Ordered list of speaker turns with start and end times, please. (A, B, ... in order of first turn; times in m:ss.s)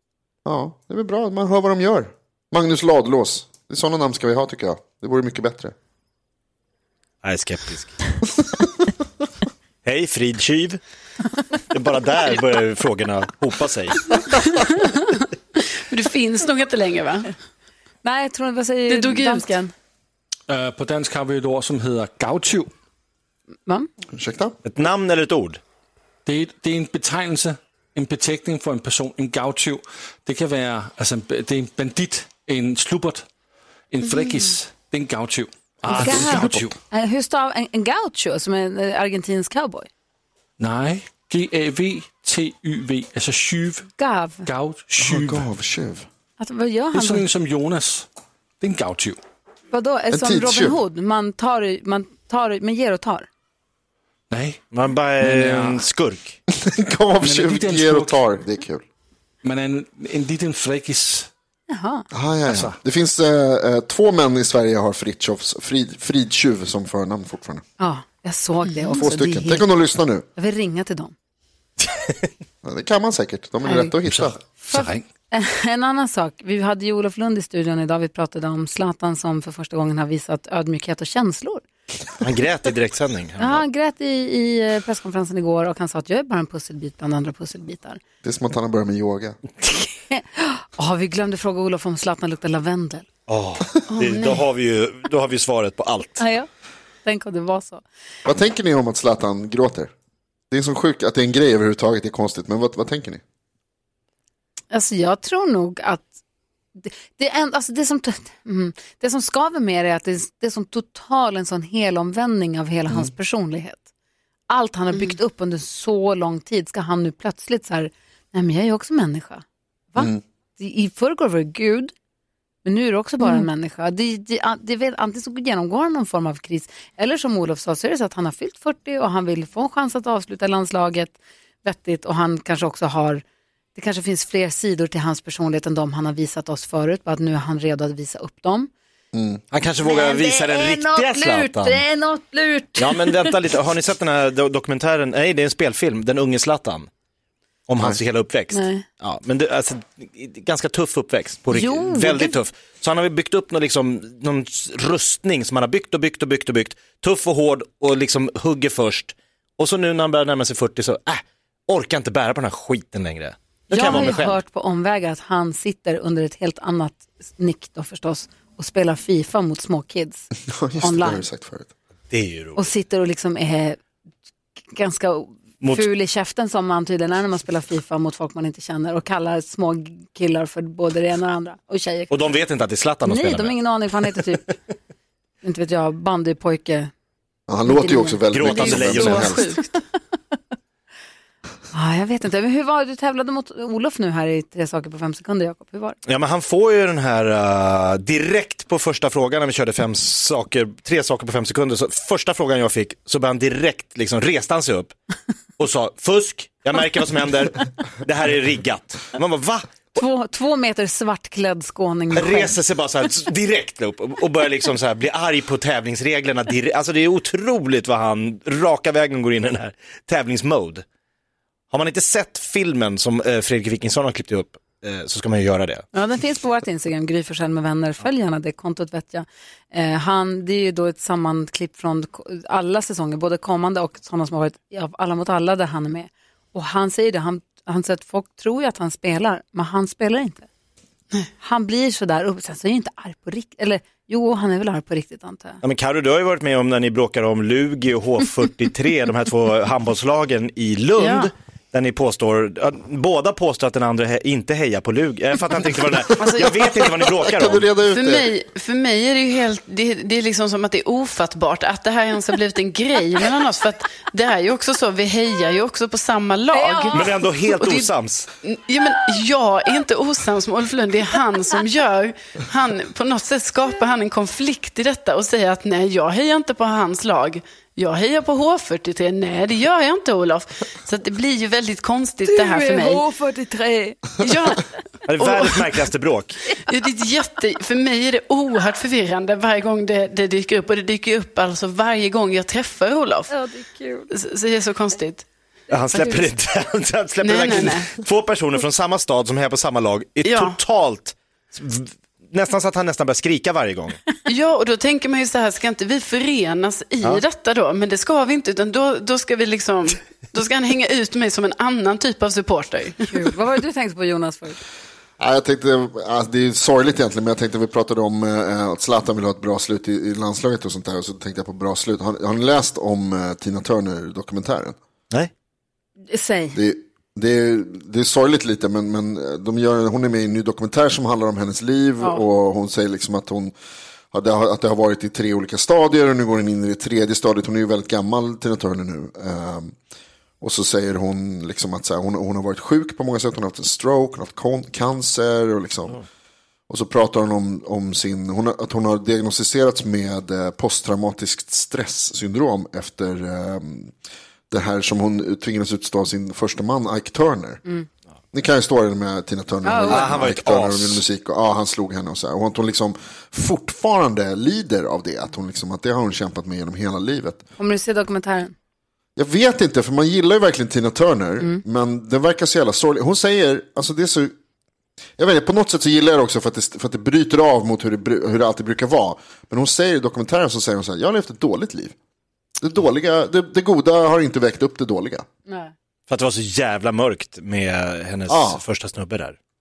0:00.4-0:05.7 A
0:07.2-0:08.1 B
0:09.8-0:10.8 B
0:11.7-0:14.1 B
0:14.4-0:15.0 C
0:15.6-0:17.3 C
0:18.0-0:19.7 D
0:18.9-0:19.5 C
0:20.5-0:22.7 E
0:24.1-0:24.6 A
0:24.6-0:25.6 B
0:26.3-0:33.3 E
0:33.9-0:36.8 E
0:35.9-0:39.9 D
0:36.0-0:36.6 A
0:40.6-0:43.9 E
0:44.0-0:44.5 D
0:44.5-0:45.4 E
0:45.0-0:46.1 A
0:46.4-0:47.3 D
0:46.9-0:48.1 E
0:48.6-0:49.2 E
0:49.7-0:53.3 D
0:50.1-0:50.8 A
0:54.3-0:54.6 E
0:54.7-0:56.4 B
0:55.2-0:55.8 E
0:56.5-0:58.8 A
0:57.2-0:58.2 E
0:59.4-1:01.3 E
1:01.7-1:02.1 D
1:02.1-1:07.6 A
1:02.5-1:02.8 E
1:07.8-1:09.7 D
1:08.7-1:09.0 C
1:09.0-1:10.2 A
1:10.4-1:11.1 D
1:12.6-1:14.4 A
1:13.6-1:13.9 D
1:14.0-1:15.0 E
1:14.7-1:21.6 D
1:22.2-1:23.6 B
1:23.4-1:28.0 D
1:28.2-1:29.4 A
1:29.6-1:33.1 D
1:33.3-1:36.2 B
1:33.9-1:34.5 C
1:36.2-1:36.5 D
1:37.0-1:37.8 D
1:38.2-1:39.9 A
1:40.5-1:43.2 A
1:44.7-1:46.2 D
1:46.8-1:53.8 D
1:54.5-2:01.9 D
2:02.6-2:13.2 D
2:13.8-2:18.7 D
2:19.1-2:19.4 A
2:19.5-2:21.8 B
2:19.8-2:23.3 D
2:22.8-2:26.9 B
2:27.7-2:44.4 B
2:28.5-2:28.8 D
2:31.5-2:32.4 D
2:43.7-2:50.3 D
2:50.4-2:51.7 A
2:50.8-2:51.2 D
2:52.1-2:52.6 B
2:52.6-2:53.8 D
2:54.7-3:02.4 D
2:55.6-2:55.9 B
3:02.1-3:03.6 B
3:03.0-3:04.6 D
3:05.4-3:06.9 D
3:07.5-3:09.5 A
3:07.7-3:08.2 D
3:08.3-3:09.4 B
3:08.5-3:09.8 C
3:11.7-3:16.0 D
3:16.1-3:24.9 B
3:25.6-3:29.7 B
3:29.9-3:32.6 D
3:32.1-3:40.8 B
3:41.7-3:45.8 B
3:45.9-4:00.5 D
4:01.4-4:05.6 D
4:05.6-4:17.7 B
4:11.0-4:11.3 C
4:16.2-4:17.0 C
4:17.2-4:18.3 A
4:17.9-4:27.9 C
4:26.5-4:27.2 D
4:26.9-4:28.3 B
4:28.4-4:43.1 C
4:42.2-4:44.2 D
4:44.2-4:45.8 C
4:45.1-4:46.4 B
4:46.7-4:53.3 C
4:53.3-4:54.1 D
4:54.1-4:55.3 C
4:55.7-5:04.0 B
4:55.9-4:56.3 D
4:57.2-4:57.9 C
5:00.2-5:00.6 C
5:04.3-5:13.2 C
5:13.0-5:14.6 D
5:15.2-5:24.8 A
5:26.1-5:26.6 D
5:26.5-5:33.5 A
5:34.1-5:39.7 A
5:40.4-5:46.0 A
5:46.7-5:53.9 A
5:54.5-5:57.6 A
5:58.3-6:07.4 A
5:59.6-6:00.2 D
5:59.9-6:01.0 B
6:07.6-6:08.5 D
6:09.2-6:14.3 A
6:15.2-6:22.0 A
6:22.6-6:25.3 A
6:25.5-6:25.7 D
6:26.1-6:29.4 B
6:28.3-6:28.6 A